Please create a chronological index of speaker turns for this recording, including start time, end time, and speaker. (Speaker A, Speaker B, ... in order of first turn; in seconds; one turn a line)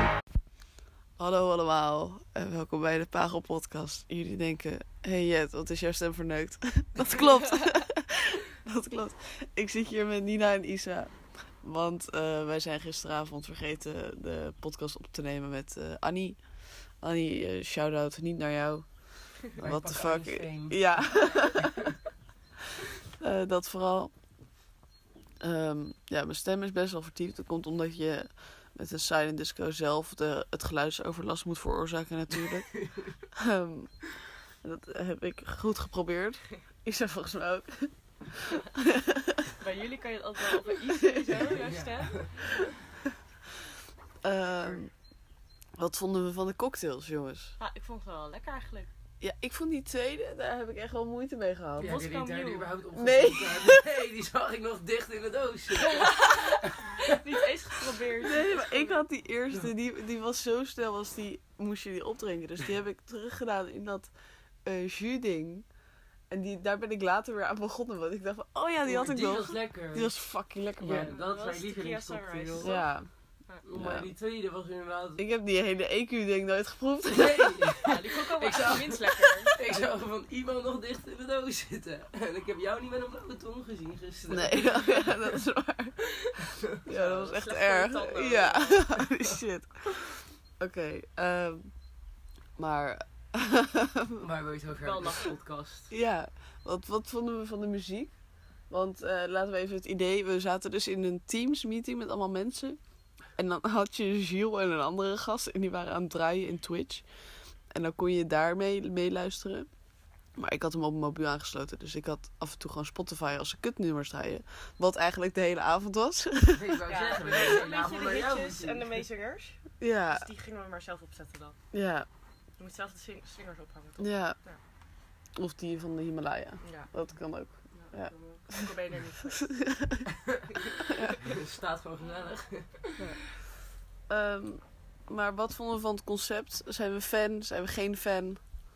Speaker A: 1.2-21.7
Speaker B: 19.6-21.9
Speaker A: 23.2-24.1
Speaker A: 25.4-39.5
Speaker B: 32.7-33.1
Speaker C: 39.6-42.7
Speaker A: 41.1-41.5
Speaker B: 41.5-42.3
Speaker A: 44.2-44.9
Speaker A: 45.8-47.5
Speaker C: 47.6-48.9
Speaker A: 49.2-52.0
Speaker B: 51.8-56.8
Speaker C: 51.8-52.7
Speaker A: 53.0-53.9
Speaker C: 55.9-56.4
Speaker C: 57.0-59.0
Speaker A: 58.2-64.1
Speaker A: 64.7-65.7
Speaker A: 66.3-71.2
Speaker B: 68.8-70.1
Speaker B: 70.8-72.8
Speaker C: 70.9-72.8
Speaker A: 72.6-73.1
Speaker B: 73.6-75.2
Speaker A: 73.8-74.1
Speaker A: 75.2-77.8
Speaker B: 77.1-85.4
Speaker C: 77.8-79.9
Speaker A: 84.3-86.0
Speaker A: 86.8-91.7
Speaker C: 86.9-88.8
Speaker B: 89.0-89.4
Speaker A: 92.6-94.2
Speaker B: 94.2-95.9
Speaker C: 94.7-95.4
Speaker A: 95.9-98.2
Speaker A: 98.7-102.8
Speaker A: 103.4-107.1
Speaker A: 107.7-109.7
Speaker A: 110.4-116.9
Speaker B: 116.6-118.9
Speaker C: 116.9-119.6
Speaker A: 119.8-120.3
Speaker C: 120.1-121.6
Speaker A: 121.7-122.1
Speaker C: 122.6-124.6
Speaker A: 124.0-124.4
Speaker A: 125.3-128.6
Speaker C: 126.6-126.9
Speaker C: 127.7-129.5
Speaker A: 129.4-130.1
Speaker A: 130.9-131.2
Speaker B: 131.2-133.1
Speaker A: 134.1-138.4